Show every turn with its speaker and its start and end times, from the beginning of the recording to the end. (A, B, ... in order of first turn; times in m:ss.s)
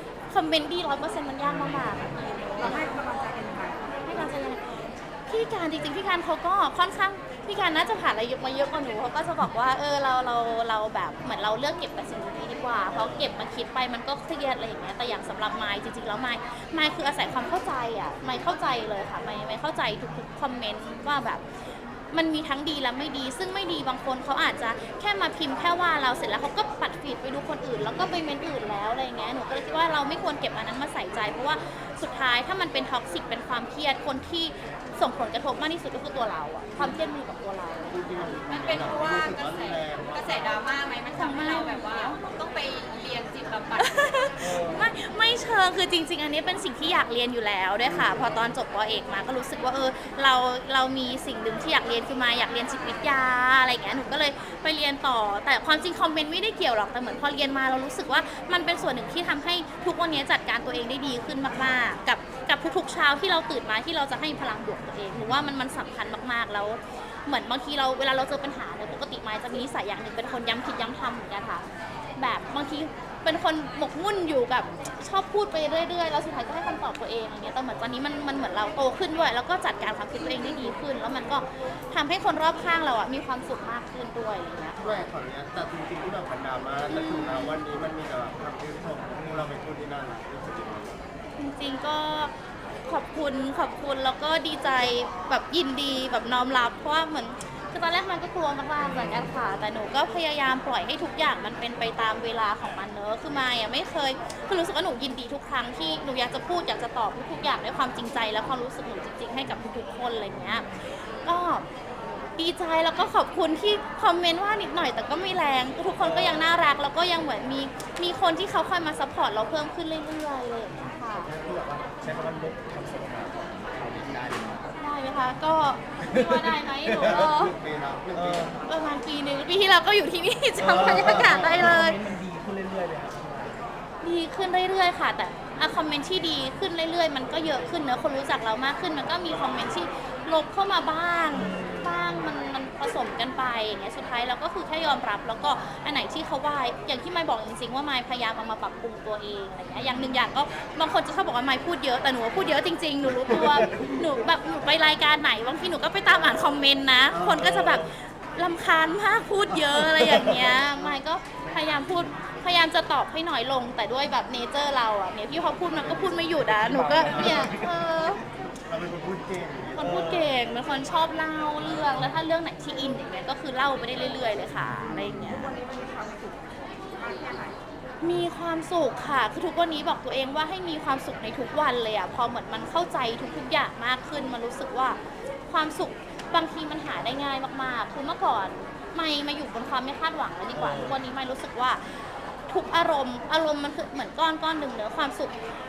0:00.3-0:02.9 A
0:02.6-0:04.3 B
0:04.1-0:21.4 A
0:22.1-0:38.4 A
0:37.9-0:40.7 C
0:38.5-0:44.3 D
0:41.1-0:42.2 A
0:43.8-1:25.0 A
0:44.4-0:44.9 E
1:24.8-1:31.0 C
1:26.9-1:27.6 A
1:31.4-1:32.3 A
1:32.8-1:51.7 A
1:38.8-1:39.4 E
1:50.3-1:50.8 E
1:52.4-2:01.3 A
1:56.0-1:56.6 E
2:00.7-2:04.8 E
2:04.8-2:07.5 A
2:06.0-2:07.4 E
2:07.0-2:08.6 C
2:08.1-2:08.6 E
2:08.7-2:12.0 A
2:10.6-2:13.6 E
2:14.0-2:48.2 A
2:21.3-2:22.3 E
2:29.8-2:30.2 E
2:33.3-2:33.9 E
2:37.2-2:38.0 E
2:39.6-2:40.6 E
2:45.8-2:48.2 E
2:48.6-2:49.9 C
2:49.8-2:55.6 A
2:49.8-2:50.3 E
2:54.8-2:55.2 E
2:55.1-2:57.6 B
2:58.0-3:15.4 A
3:10.5-3:11.0 E